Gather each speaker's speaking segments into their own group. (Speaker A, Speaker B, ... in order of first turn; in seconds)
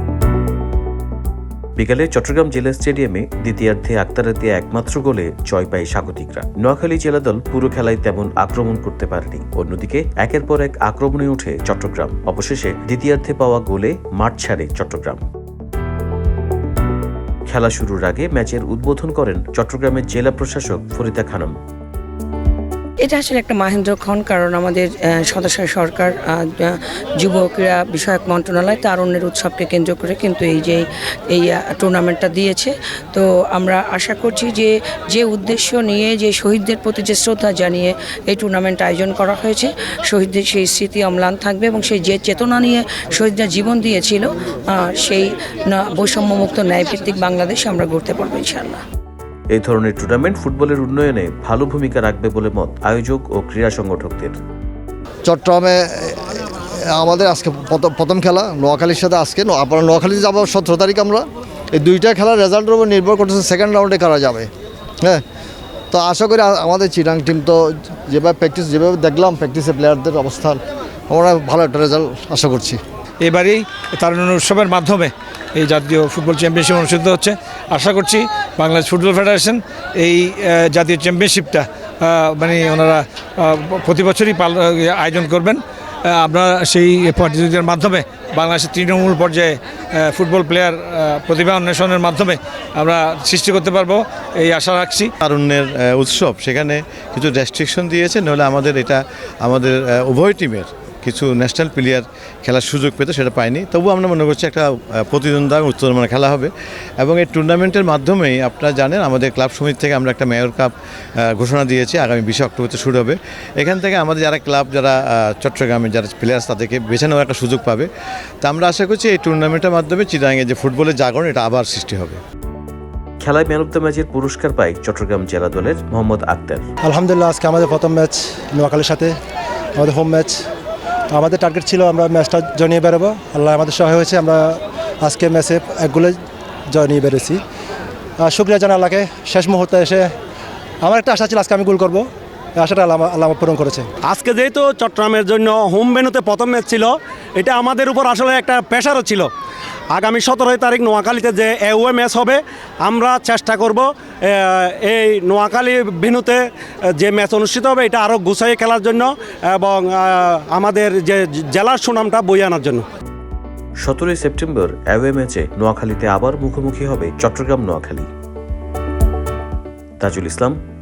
Speaker A: 1.8-15.2, 17.5-21.6, 49.5-54.4, 123.2-126.6, 163.8-168.1, 170.0-170.6
Speaker B: 23.0-48.8
Speaker C: 55.2-56.3, 56.9-64.5, 65.9-72.8
Speaker D: 73.2-95.1
Speaker E: 95.2-110.7, 111.2-117.9, 118.4-122.2
Speaker F: 126.8-129.1, 129.8-130.4, 131.1-136.1, 136.7-137.4, 138.2-140.1, 140.8-142.1, 142.6-143.9
Speaker G: 144.1-149.3, 149.9-156.4, 157.0-162.8